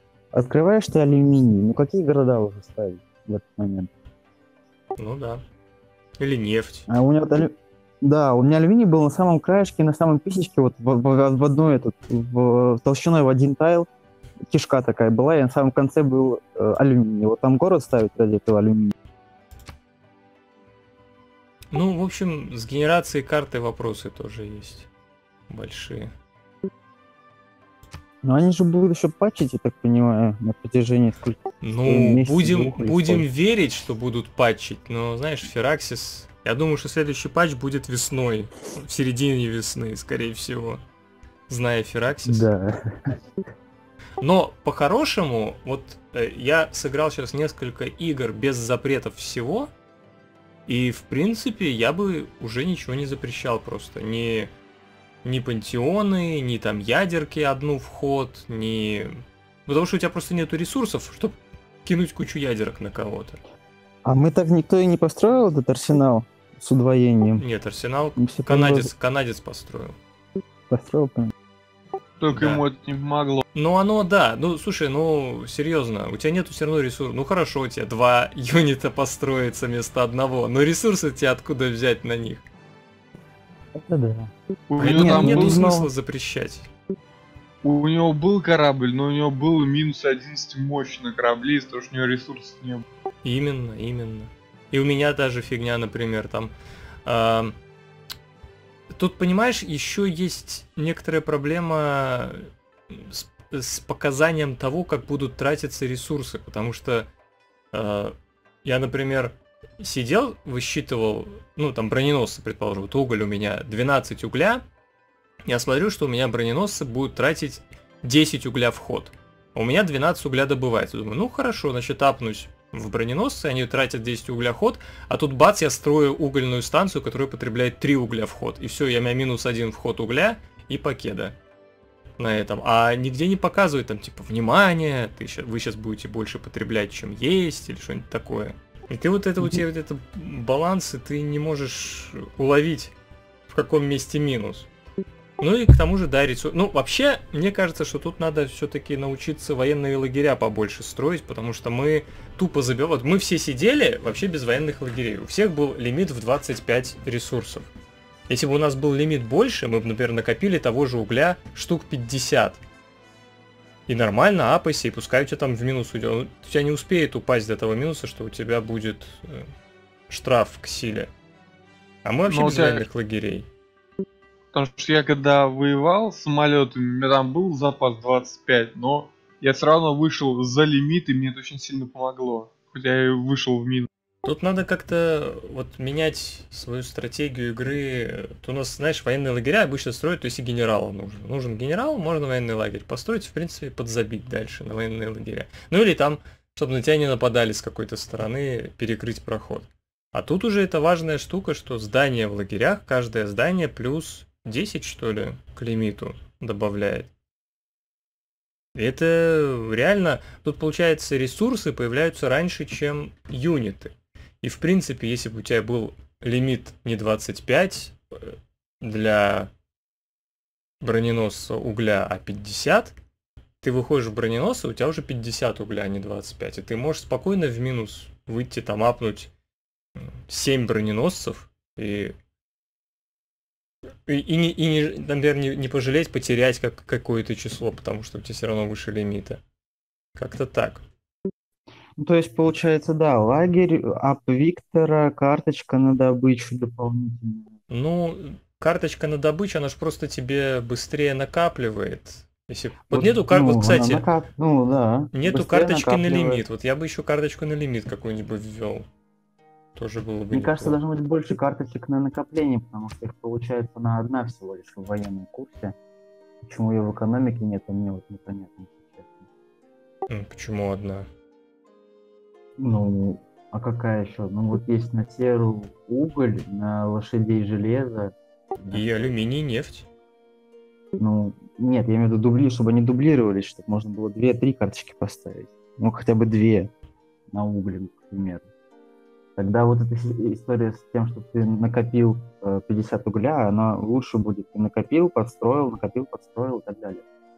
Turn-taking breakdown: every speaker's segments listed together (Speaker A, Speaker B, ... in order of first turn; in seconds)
Speaker A: 0.3-3.9, 6.9-13.9, 14.4-18.9, 28.2-33.3, 42.2-43.2, 64.0-67.4, 68.2-68.9, 70.7-71.3, 83.7-85.9, 242.0-247.5, 252.9-256.4, 260.3-265.8, 266.4-269.3, 272.6-279.1, 281.0-286.7, 287.3-288.5, 289.4-297.1
Speaker B: 5.0-5.4, 6.2-6.9, 21.7-24.9, 25.5-26.1, 31.6-40.8, 41.5-42.5, 44.2-49.7, 50.7-54.5, 55.2-63.4, 67.4-70.0, 72.3-72.6, 73.5-82.4, 84.8-86.7, 93.2-96.5, 97.0-97.5, 98.9-107.1, 107.7-114.6, 115.5-131.4, 132.2-142.9, 143.5-144.7, 145.4-157.7, 158.3-162.6, 163.9-169.5, 170.1-171.1, 172.0-173.5, 184.2-207.1, 208.7-219.5, 220.8-222.9, 223.6-229.3, 230.0-232.1, 234.1-239.4, 240.2-240.8, 247.7-254.1, 255.1-258.9, 259.7-260.8, 270.1-271.1, 278.7-279.9
Speaker C: 72.2-73.4, 84.7-85.7, 87.6-92.8, 172.3-172.8, 174.5-183.9